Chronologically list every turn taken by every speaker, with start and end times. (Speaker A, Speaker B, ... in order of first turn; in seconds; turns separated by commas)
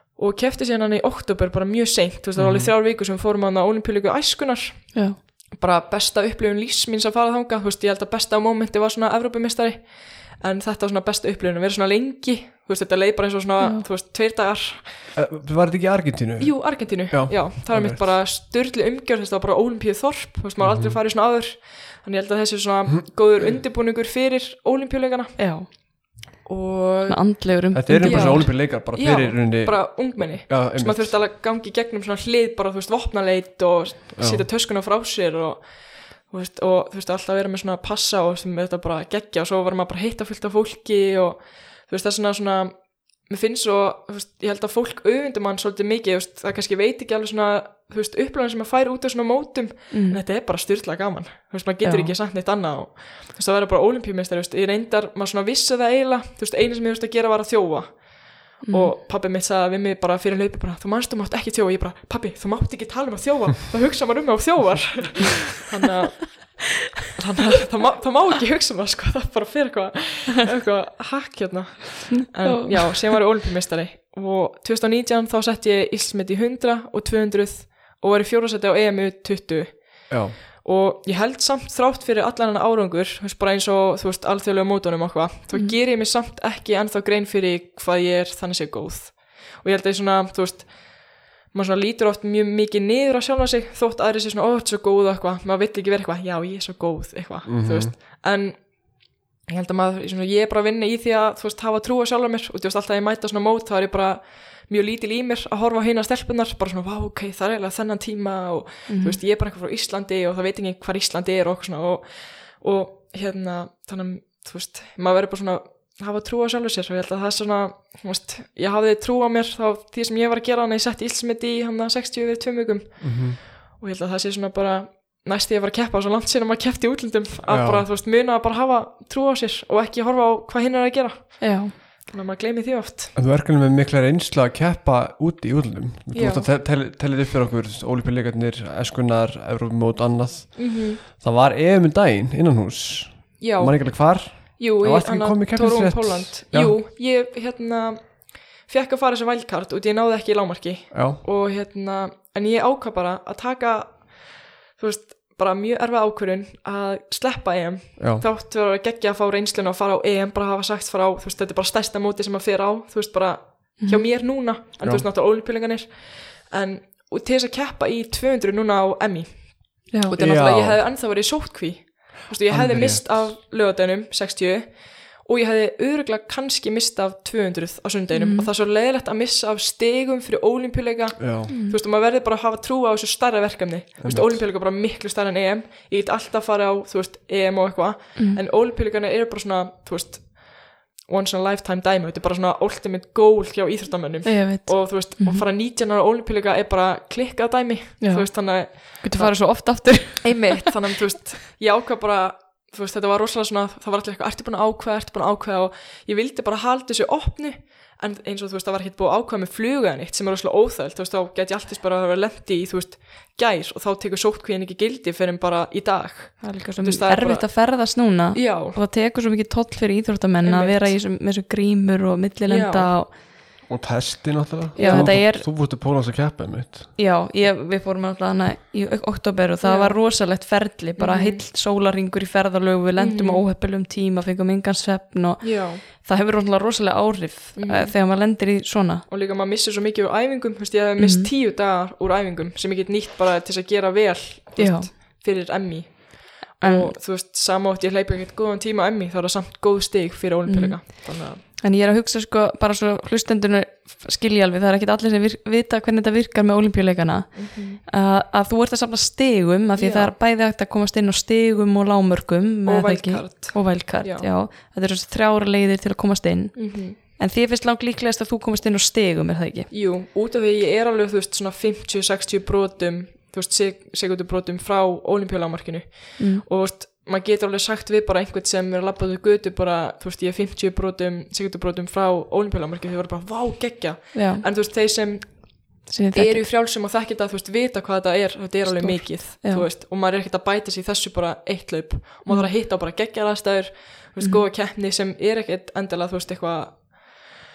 Speaker A: 0.1-15.1, Speaker B: 2.4-2.7, Speaker C: 13.6-13.8, Speaker B: 15.1-18.0, Speaker A: 16.4-25.9, Speaker B: 20.6-21.0, Speaker B: 23.4-23.6, Speaker C: 25.4-26.2, Speaker A: 26.4-133.1, Speaker C: 27.1-28.5, Speaker B: 27.7-31.2, Speaker B: 34.1-34.5, Speaker C: 49.9-50.2, Speaker C: 51.8-52.1, Speaker C: 58.6-58.9, Speaker C: 72.2-73.1, Speaker B: 80.1-80.4, Speaker B: 97.5-97.9, Speaker C: 108.9-109.2, Speaker B: 123.0-123.4, Speaker B: 127.5-127.9, Speaker C: 131.4-131.7, Speaker B: 133.1-146.8, Speaker A: 136.1-136.5, Speaker A: 140.6-141.0, Speaker A: 143.4-218.8, Speaker B: 150.9-151.2, Speaker B: 158.0-158.2, Speaker C: 163.8-164.1, Speaker B: 164.8-165.1, Speaker B: 170.2-170.8, Speaker B: 172.5-173.4, Speaker C: 178.1-178.5, Speaker B: 181.2-181.5, Speaker C: 181.5-181.8, Speaker B: 184.0-184.4, Speaker C: 194.2-195.4, Speaker C: 198.0-200.7, Speaker C: 216.4-223.2, Speaker A: 220.4-221.0, Speaker A: 222.5-223.2, Speaker B: 223.6-226.9, Speaker C: 224.8-225.5, Speaker A: 224.8-225.1, Speaker C: 226.9-239.0, Speaker A: 229.6-231.4, Speaker A: 233.0-233.4, Speaker A: 235.4-235.8, Speaker A: 237.5-238.0, Speaker A: 239.1-251.4, Speaker C: 241.0-241.3, Speaker C: 244.6-244.9, Speaker C: 246.6-246.9, Speaker C: 250.4-269.7, Speaker A: 257.3-257.8, Speaker A: 259.8-260.1, Speaker A: 262.6-264.3, Speaker A: 266.5-267.0, Speaker A: 269.7-297.4, Speaker C: 276.2-276.4, Speaker C: 284.1-284.4, Speaker C: 285.9-286.5, Speaker C: 288.6-289.7, Speaker C: 294.2-294.4